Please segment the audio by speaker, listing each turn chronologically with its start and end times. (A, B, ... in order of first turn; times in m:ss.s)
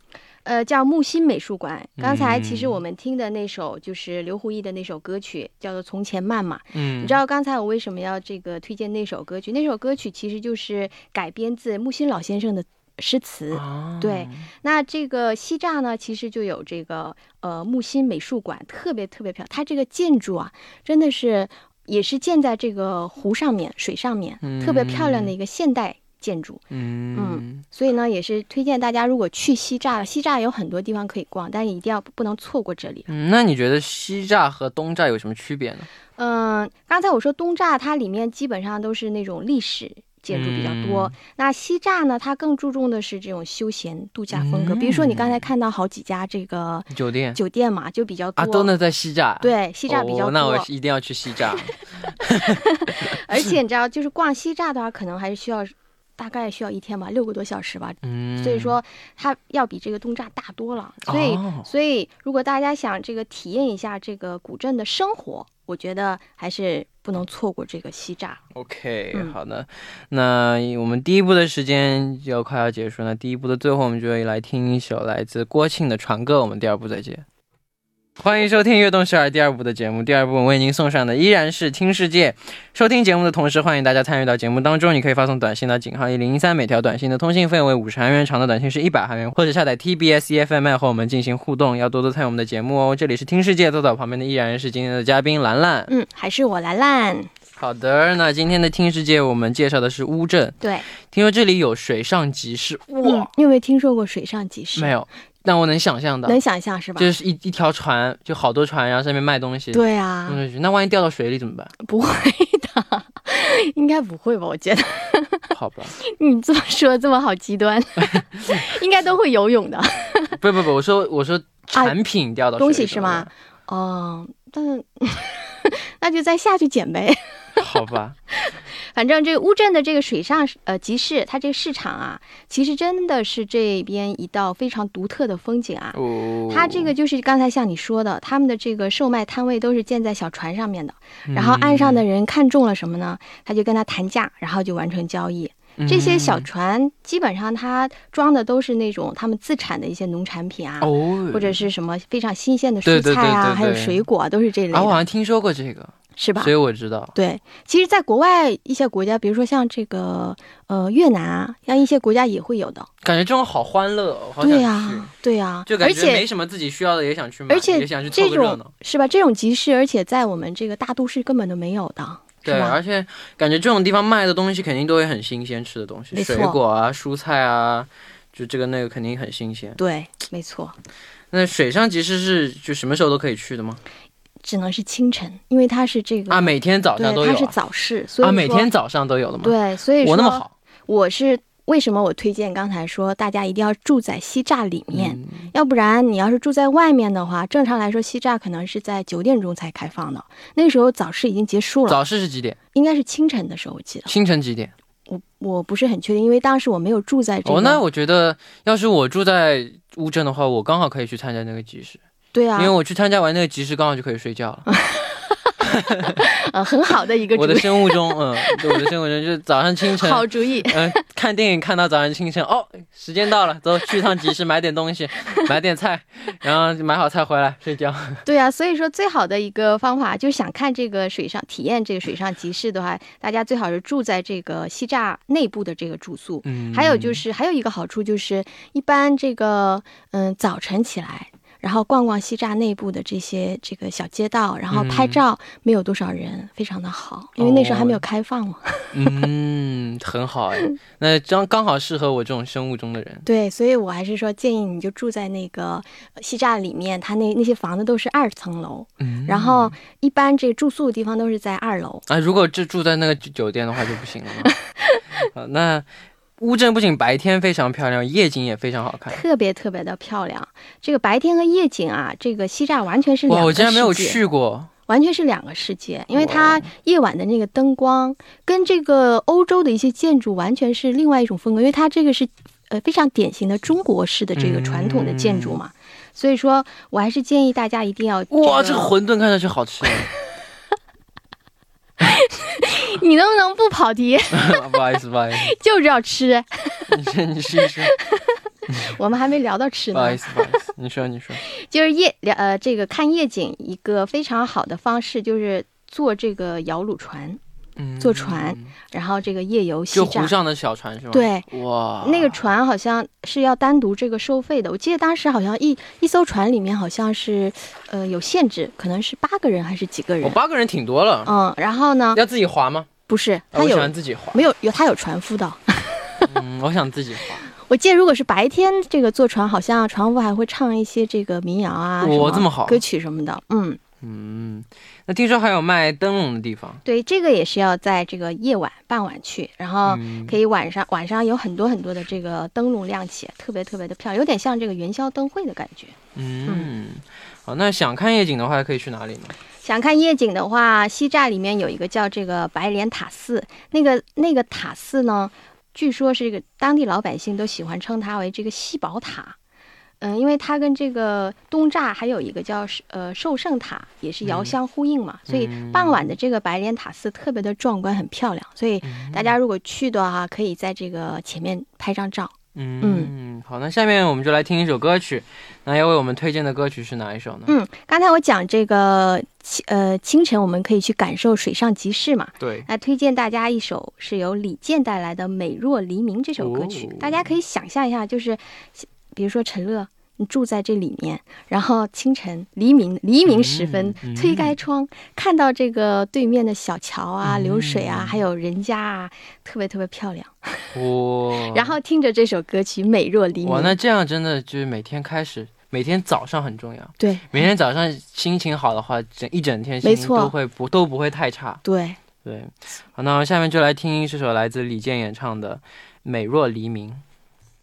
0:00.4-0:26.6 A
0:02.0-0:02.8 B
0:06.7-0:07.2 B
0:13.5-0:14.5 B
0:24.4-0:25.3 B
0:26.7-0:27.6 B
0:27.1-0:33.1 A
0:33.1-0:35.9 B
0:36.2-0:48.7 A
0:40.3-0:41.1 B
0:44.3-0:45.4 B
0:46.9-0:47.4 B
0:48.4-0:53.5 B
0:49.4-0:50.7 A
0:52.4-1:08.4 A
0:58.0-0:58.8 B
1:01.1-1:01.7 B
1:08.5-1:17.2 B
1:18.2-1:35.9 B
1:35.9-1:37.3 A
1:37.6-1:43.3 B
1:40.6-1:40.9 A
1:43.0-1:44.9 A
1:44.8-1:46.4 B
1:46.2-1:47.1 A
1:47.0-1:51.7 B
1:49.7-1:50.4 A
1:51.8-2:00.4 A
1:55.5-1:55.9 B
2:00.4-2:03.3 B
2:02.6-2:07.7 A
2:07.6-2:08.2 B
2:08.3-2:35.0 A
2:15.9-2:16.9 B
2:21.3-2:22.0 B
2:25.8-2:26.5 B
2:30.8-2:31.6 B
2:32.8-2:34.0 B
2:34.7-2:37.1 B
2:36.2-2:36.5 A
2:37.1-2:42.9 A
2:43.0-2:45.1 B
2:44.4-2:46.2 A
2:45.6-2:48.7 B
2:47.5-2:52.8 A
2:52.4-2:59.8 B
2:56.1-2:56.6 A
2:59.8-3:00.7 A
3:01.3-3:03.8 B
3:04.4-3:08.7 A
3:06.3-3:07.5 B
3:08.2-3:10.5 B
3:09.4-3:22.0 A
3:14.9-3:15.5 B
3:21.9-3:22.6 B
3:22.7-3:24.1 A
3:24.1-3:24.7 B
3:25.1-3:27.8 A
3:27.4-3:32.0 B
3:32.3-3:32.7 A
3:32.6-3:34.7 B
3:34.7-3:35.5 A
3:35.6-3:36.2 B
3:36.0-3:38.8 A
3:37.3-3:48.2 B
3:39.9-3:40.8 A
3:48.2-4:09.2 A
3:56.4-3:57.2 B
4:04.7-4:05.2 B
4:07.4-4:08.0 B
4:08.9-4:13.2 B
4:13.2-4:22.0 A
4:19.0-4:19.7 B
4:22.1-4:24.5 B
4:24.7-4:25.0 A
4:25.2-4:25.9 B
4:26.4-4:29.2 B
4:29.1-4:34.2 A
4:33.3-4:34.7 B
4:34.9-4:48.9 A
4:36.1-4:36.7 B
4:44.4-4:45.6 B
4:48.3-4:50.1 B
4:52.0-4:54.7 A
4:54.3-4:55.5 B
4:55.4-4:56.9 A
4:56.9-4:57.9 B
4:57.6-5:00.5 A
4:58.7-4:58.9 B
4:59.9-5:01.4 B
5:01.4-5:07.4 A
5:07.8-5:08.7 B
5:08.0-5:10.3 A
5:09.9-5:12.4 B
5:11.1-5:11.5 A
5:12.0-5:20.4 A
5:20.2-5:21.3 B
5:21.2-5:22.2 A
5:22.1-5:22.9 B
5:23.1-5:26.3 A
5:23.5-5:24.4 B
5:26.2-5:27.5 B
5:27.5-5:33.8 A
5:32.0-5:32.8 B
5:34.0-5:36.8 B
5:36.8-5:46.0 A
5:39.8-5:40.4 B
5:46.1-5:49.3 B
5:49.6-5:59.4 A
6:00.0-6:13.1 A
6:04.2-6:04.5 B
6:05.3-6:06.0 B
6:08.8-6:09.3 B
6:12.5-6:17.5 B
6:17.5-6:40.7 A
6:22.4-6:22.6 B
6:26.4-6:27.3 B
6:33.2-6:34.6 B
6:37.2-6:38.2 B
6:40.7-6:41.8 B
6:41.5-6:43.7 A
6:43.4-6:51.6 B
6:47.0-6:47.5 A
6:49.8-6:50.3 A
6:51.6-6:52.0 A
6:52.2-6:57.0 B